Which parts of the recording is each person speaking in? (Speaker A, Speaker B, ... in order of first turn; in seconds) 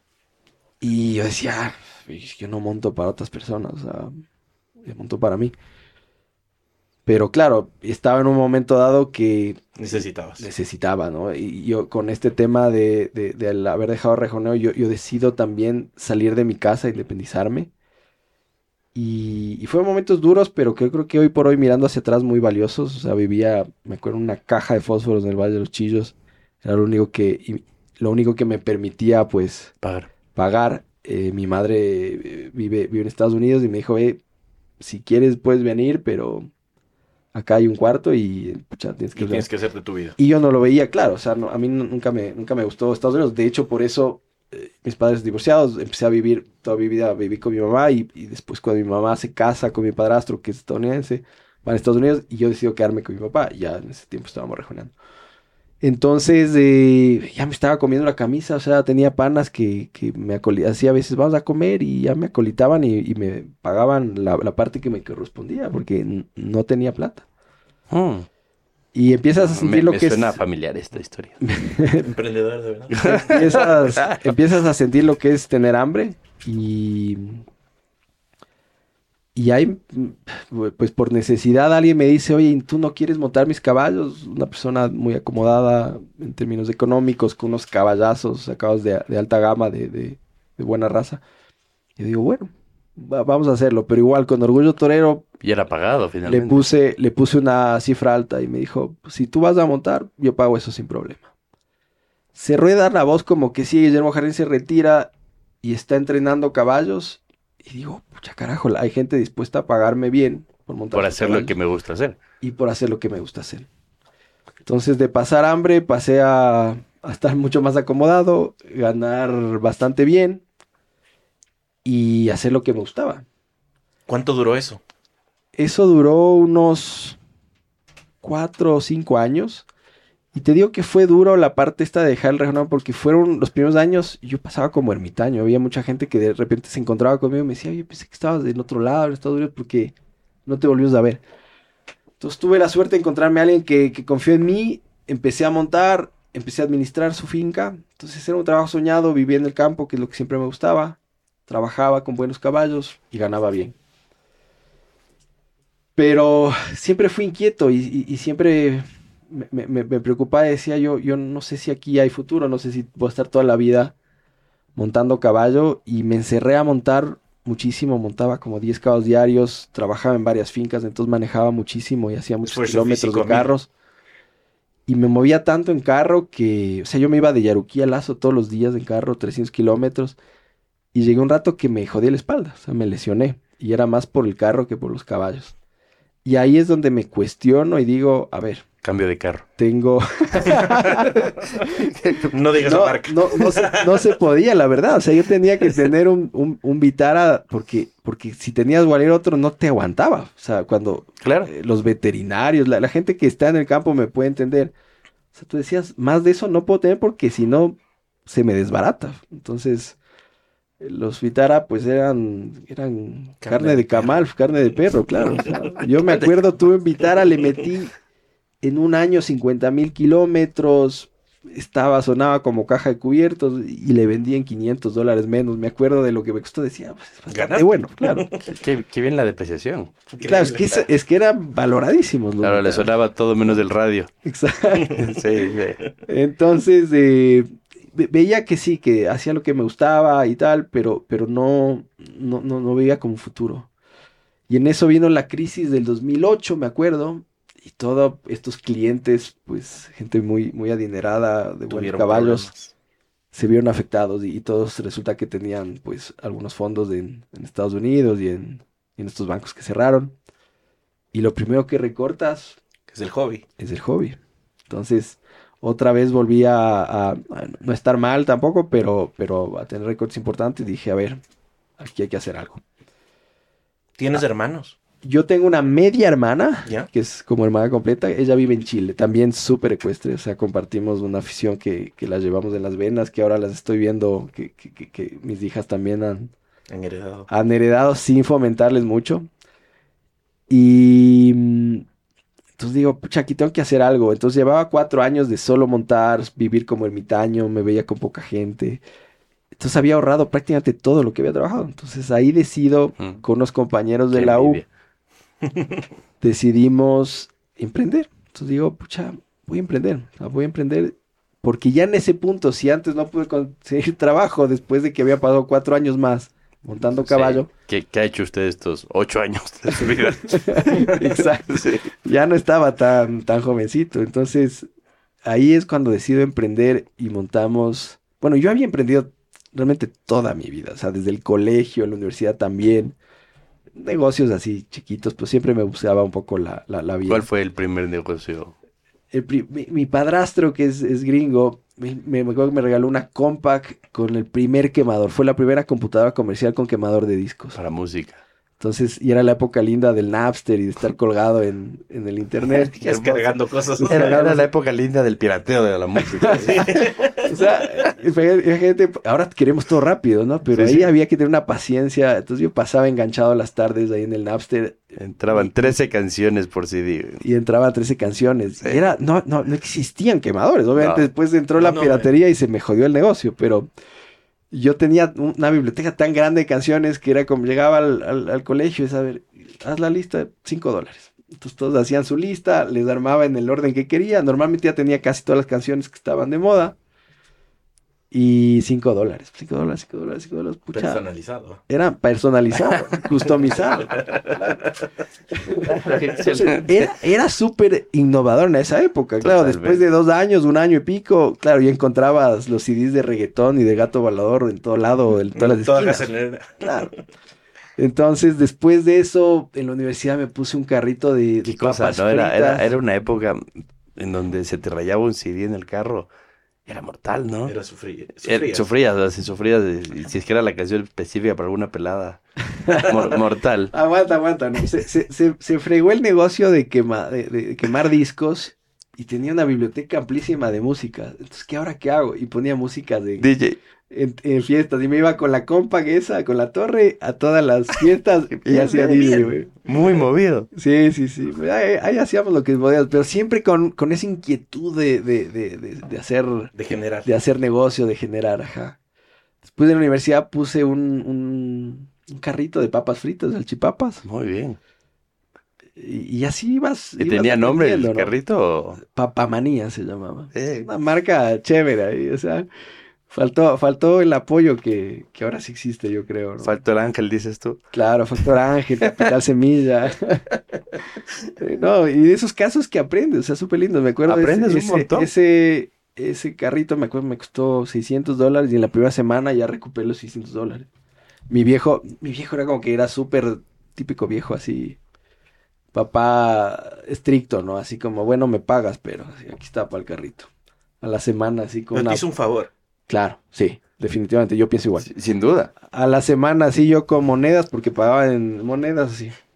Speaker A: 0.8-4.2, 4.8-5.5, 7.1-17.7, 18.9-29.7, 30.4-34.2, 34.8-36.5, 37.3-39.5, 40.2-54.9, 55.8-67.2, 69.0-70.4, 71.4-72.1, 73.0-77.5, 79.3-91.2, 92.0-95.2, 96.3-101.3, 102.3-105.1, 105.6-111.5, 112.4-113.7, 114.7-120.4, 121.8-123.2, 125.6-127.2, 128.2-129.7, 130.3-139.9, 140.5-141.2, 142.2-153.8, 156.0-163.9, 164.8-173.7, 174.9-180.2, 180.9-185.5, 186.2-188.7, 189.6-191.9, 192.6-204.7, 205.3-210.0, 210.8-217.9, 218.6-228.3, 230.2-232.9, 234.2-235.1, 236.1-243.7, 244.5-252.5, 253.3-260.1, 261.1-262.6, 263.6-264.2, 264.7-271.2, 271.8-272.6, 275.0-286.3, 287.3-289.3, 290.5-291.9, 292.6-298.8, 299.6-304.6, 306.2-317.5, 319.8-324.7, 325.3-333.0, 333.8-337.3, 339.1-347.6, 348.6-354.5, 356.3-356.7, 357.2-365.8, 367.2-373.7, 374.5-386.8, 388.1-391.0, 391.7-394.0, 395.5-406.1, 406.6-406.9, 407.8-412.7, 423.7-433.3, 433.9-439.5, 440.6-446.5, 447.0-448.8, 449.5-454.0, 455.8-458.1, 458.8-462.5, 463.1-466.5, 467.7-470.2, 471.4-480.7, 481.3-484.8, 485.7-490.3, 490.8-492.0, 492.9-494.9, 495.6-499.1
Speaker B: 9.8-10.5, 39.2-40.2, 72.0-73.7, 124.1-124.8, 172.4-173.5, 192.3-194.1, 213.4-214.2, 215.2-215.5, 227.3-228.4, 230.1-230.9, 251.7-252.7, 262.9-263.4, 274.0-274.8, 286.7-287.3, 352.8-354.2, 356.4-357.3, 371.6-372.1, 390.7-391.6, 393.5-394.7, 405.4-407.0, 417.4-418.7, 438.6-439.7, 446.6-447.1, 491.7-492.5
Speaker C: 29.8-30.1, 67.9-68.3, 69.4-71.4, 72.9-74.4, 95.4-96.7, 110.9-112.2, 188.8-189.5, 191.6-192.4, 201.2-201.5, 216.0-216.3, 228.5-230.0, 232.4-234.1, 235.0-235.8, 304.1-304.7, 317.0-321.9, 337.1-338.5, 347.5-348.2, 353.9-356.9, 360.5-360.9, 365.0-367.2, 370.8-371.1, 395.6-396.9, 399.2-399.8, 411.4-413.4, 414.0-416.1, 416.7-417.6, 418.2-423.7, 433.2-433.6, 438.4-438.9, 439.6-440.5, 454.1-454.6, 457.0-458.8, 460.3-460.7, 466.4-467.6, 474.1-475.1, 494.8-495.5